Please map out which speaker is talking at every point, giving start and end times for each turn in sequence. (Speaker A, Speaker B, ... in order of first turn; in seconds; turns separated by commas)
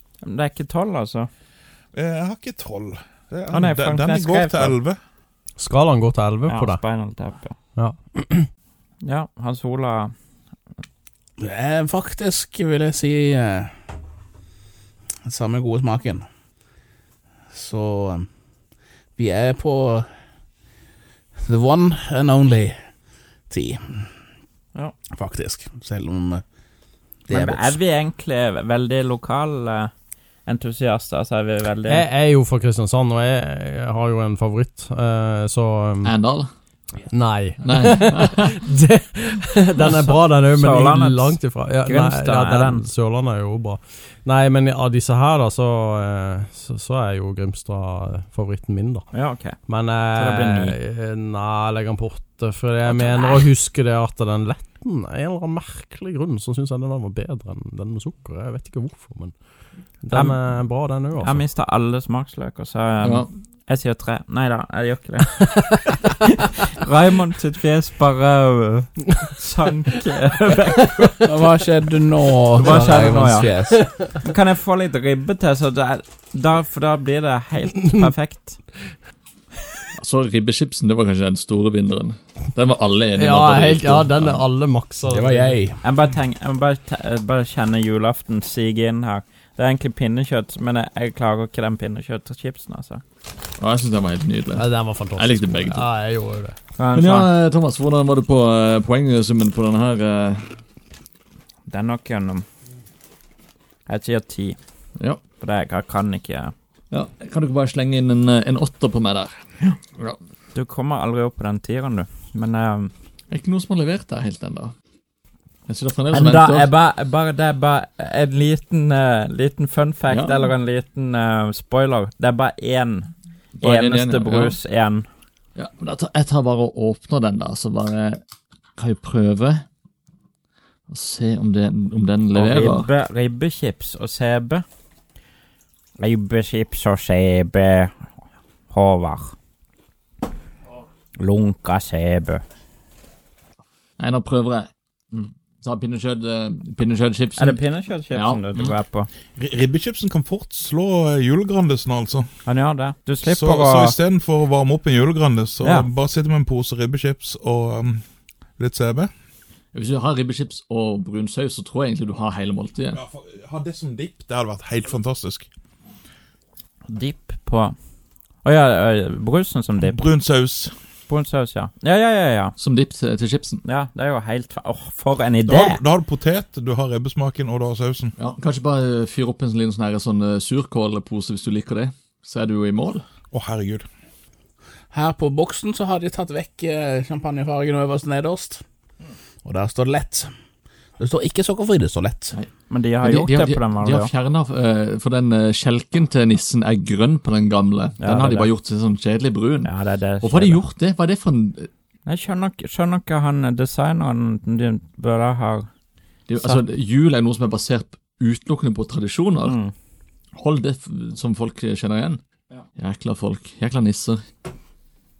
Speaker A: 0.2-1.3, Speaker B: 1.9-5.0, Speaker A: 3.5-4.7, Speaker C: 5.6-6.8, Speaker A: 6.5-7.5, Speaker C: 7.8-8.5, Speaker A: 9.0-10.1, Speaker D: 11.4-13.7, Speaker D: 15.2-16.2, Speaker D: 17.5-18.3, Speaker D: 19.2-20.1, Speaker D: 21.4-22.8, Speaker D: 23.5-24.1, Speaker D: 25.1-26.4, Speaker D: 27.3-27.8, Speaker A: 27.3-29.9, Speaker A: 30.4-32.0, Speaker C: 31.9-36.1, Speaker E: 36.0-36.5, Speaker C: 37.1-49.1, Speaker E: 37.6-38.5, Speaker A: 39.8-42.9, Speaker A: 49.1-49.5, Speaker C: 49.7-59.3, Speaker E: 50.2-50.7, Speaker A: 52.9-53.5, Speaker C: 60.0-61.4, Speaker A: 60.1-60.5, Speaker A: 61.2-71.3, Speaker E: 63.0-63.3, Speaker C: 65.7-66.0, Speaker C: 70.9-71.3, Speaker D: 71.2-73.8, Speaker A: 72.6-73.5, Speaker C: 73.7-74.0, Speaker A: 74.1-78.6, Speaker E: 80.0-84.4, Speaker C: 83.2-85.5, Speaker D: 85.1-85.8, Speaker A: 85.8-93.0, Speaker E: 93.6-95.9, Speaker C: 94.5-96.5, Speaker A: 96.8-97.3, Speaker E: 96.9-100.5, Speaker A: 101.7-102.5, Speaker A: 103.9-104.6, Speaker A: 105.4-106.5, Speaker E: 106.9-110.2, Speaker A: 110.5-112.9, Speaker E: 113.3-114.7, Speaker E: 115.7-116.7, Speaker A: 116.1-125.1, Speaker E: 120.1-120.4, Speaker E: 123.6-124.6, Speaker E: 125.5-128.2, Speaker E: 128.8-129.6, Speaker E: 130.9-132.9, Speaker A: 132.3-134.6, Speaker A: 136.0-138.0, Speaker A: 138.7-139.3, Speaker A: 141.2-142.4, Speaker E: 144.0-147.6, Speaker A: 147.4-149.1, Speaker E: 148.1-148.7, Speaker B: 149.3-152.3, Speaker A: 152.4-153.9, Speaker B: 153.2-158.0, Speaker A: 155.6-155.9, Speaker B: 158.6-159.1, Speaker E: 159.7-163.0, Speaker B: 162.9-165.5, Speaker A: 166.9-167.8, Speaker A: 168.4-170.0, Speaker B: 169.8-170.7, Speaker A: 171.1-172.5, Speaker E: 172.6-173.6, Speaker A: 173.6-175.8, Speaker B: 175.4-178.1, Speaker E: 178.2-183.0, Speaker B: 183.3-183.9, Speaker D: 184.9-188.6, Speaker D: 189.4-190.3, Speaker D: 191.0-192.4, Speaker A: 192.7-194.1, Speaker E: 193.0-201.7, Speaker A: 198.0-198.5, Speaker A: 199.6-200.6, Speaker A: 202.1-205.7, Speaker E: 206.3-209.6, Speaker A: 209.4-209.7, Speaker E: 210.3-212.2, Speaker E: 212.8-214.2